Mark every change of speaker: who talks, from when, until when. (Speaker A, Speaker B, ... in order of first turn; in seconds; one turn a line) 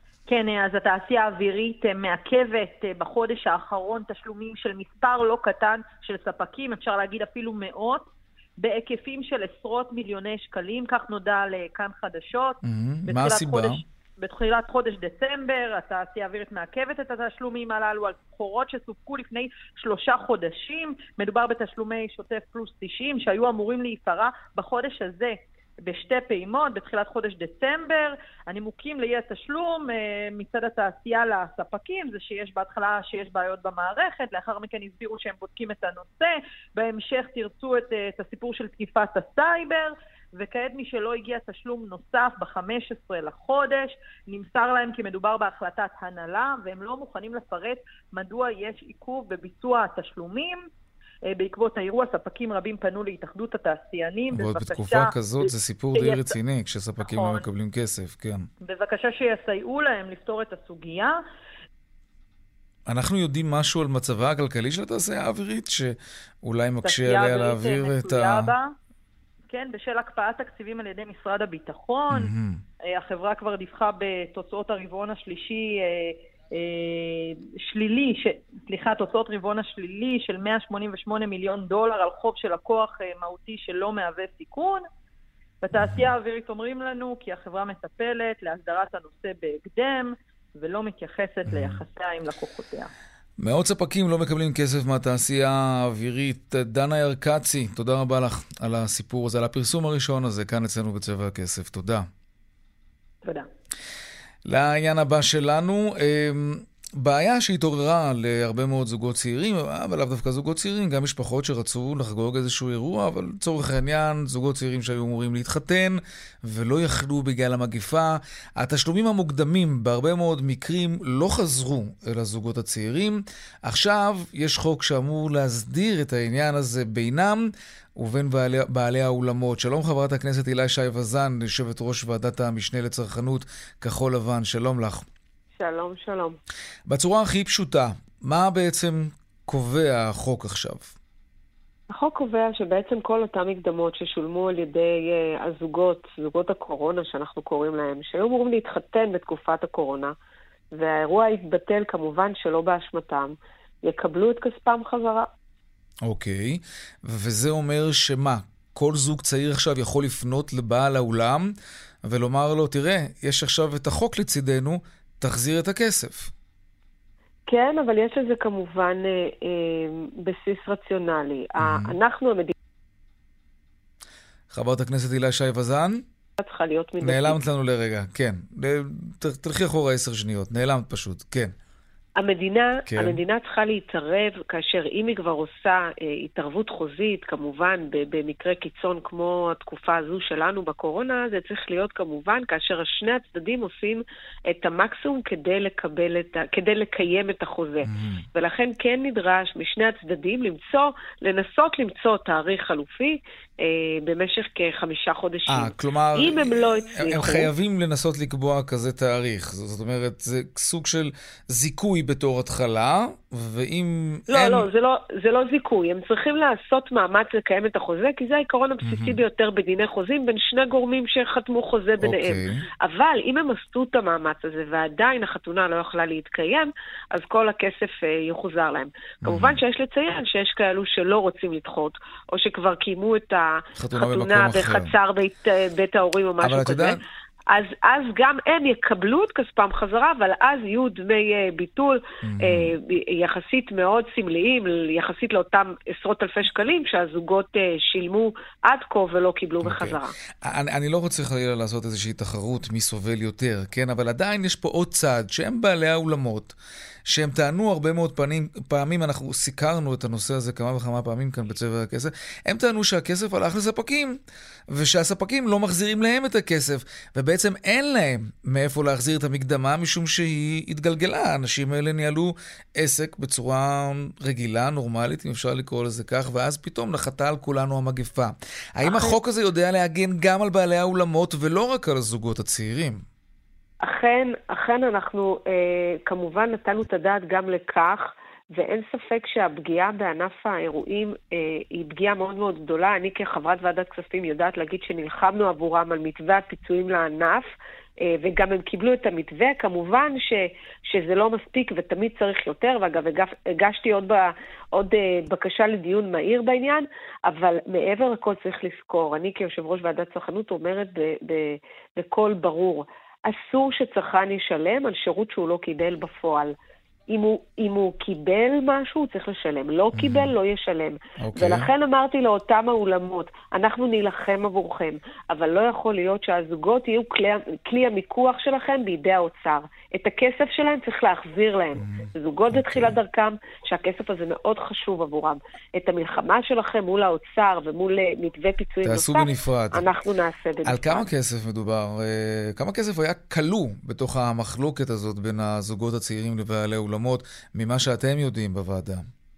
Speaker A: 0.2-50.7
Speaker B: 12.6-13.8
Speaker A: 51.3-56.3
Speaker B: 54.3-58.5
Speaker A: 57.0-57.4
Speaker A: 58.6-61.2
Speaker B: 62.9-68.5
Speaker A: 66.8-68.7
Speaker A: 69.5-72.3
Speaker B: 72.1-72.6
Speaker A: 72.8-84.8
Speaker A: 85.6-92.9
Speaker B: 85.8-86.0
Speaker B: 91.5-91.8
Speaker B: 93.4-102.1
Speaker B: 104.5-135.0
Speaker C: 135.6-136.4
Speaker B: 136.9-140.9
Speaker C: 141.9-150.1
Speaker C: 150.7-155.3
Speaker B: 156.0-166.3
Speaker C: 167.5-172.5
Speaker B: 171.6-171.9
Speaker B: 174.5-176.0
Speaker C: 176.4-177.4
Speaker B: 177.0-181.5
Speaker C: 182.2-207.5
Speaker B: 182.9-183.2
Speaker B: 197.8-198.2
Speaker B: 205.5-214.7
Speaker C: 214.3-237.0
Speaker B: 218.8-219.2
Speaker B: 222.0-222.7
Speaker B: 229.2-229.6
Speaker B: 233.8-234.9
Speaker B: 236.4-237.0
Speaker C: 237.5-250.1
Speaker B: 242.2-242.7
Speaker B: 249.6-256.5
Speaker B: 257.1-264.2
Speaker B: 264.7-283.0
Speaker C: 278.9-279.1
Speaker C: 283.8-297.5
Speaker C: 298.0-316.5
Speaker C: 317.1-341.1
Speaker B: 319.9-320.3
Speaker B: 321.2-321.7
Speaker B: 331.8-332.9
Speaker B: 338.8-339.9
Speaker B: 340.6-349.1